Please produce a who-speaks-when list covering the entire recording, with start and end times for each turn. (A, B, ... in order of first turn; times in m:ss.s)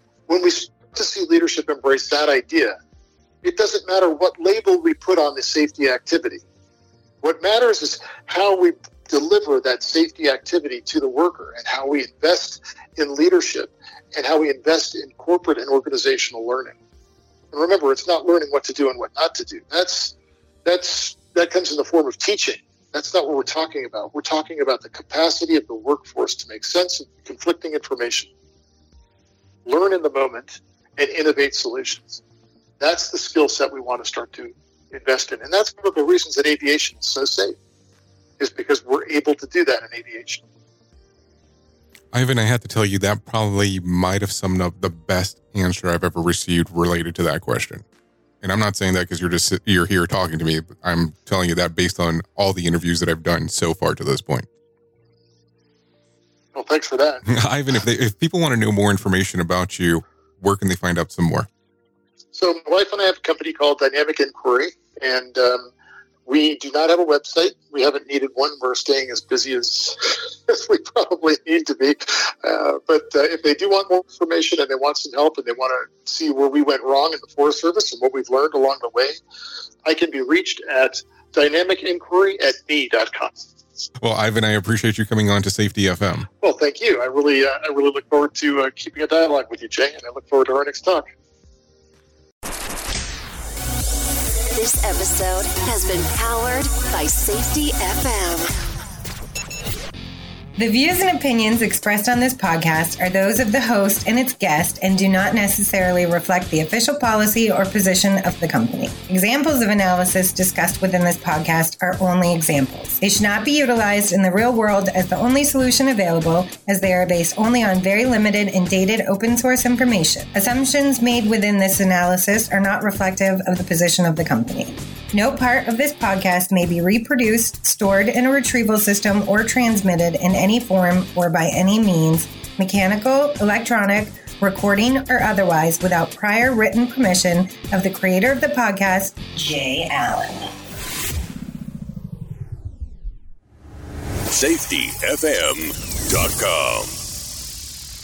0:00.3-0:02.8 A
0:03.4-0:06.4 A
0:07.2-0:16.8 A
0:17.5-0:20.1 A
0:20.6-0:28.3 A
0:29.7-0:32.2 A
0:32.8-0:37.6 A
0:38.4-0:40.4 A
0:42.1-0:47.8 B
0:48.4-0:54.5 B
0:56.5-0:57.3 A
0:57.3-1:01.5 B
1:02.3-1:05.7 A
1:06.3-1:19.2 A
1:19.8-1:23.5 A
1:24.0-1:26.3 B
1:26.4-1:31.1 A
1:34.6-1:38.5 C
1:40.6-2:20.5 D
2:24.3-2:27.0 E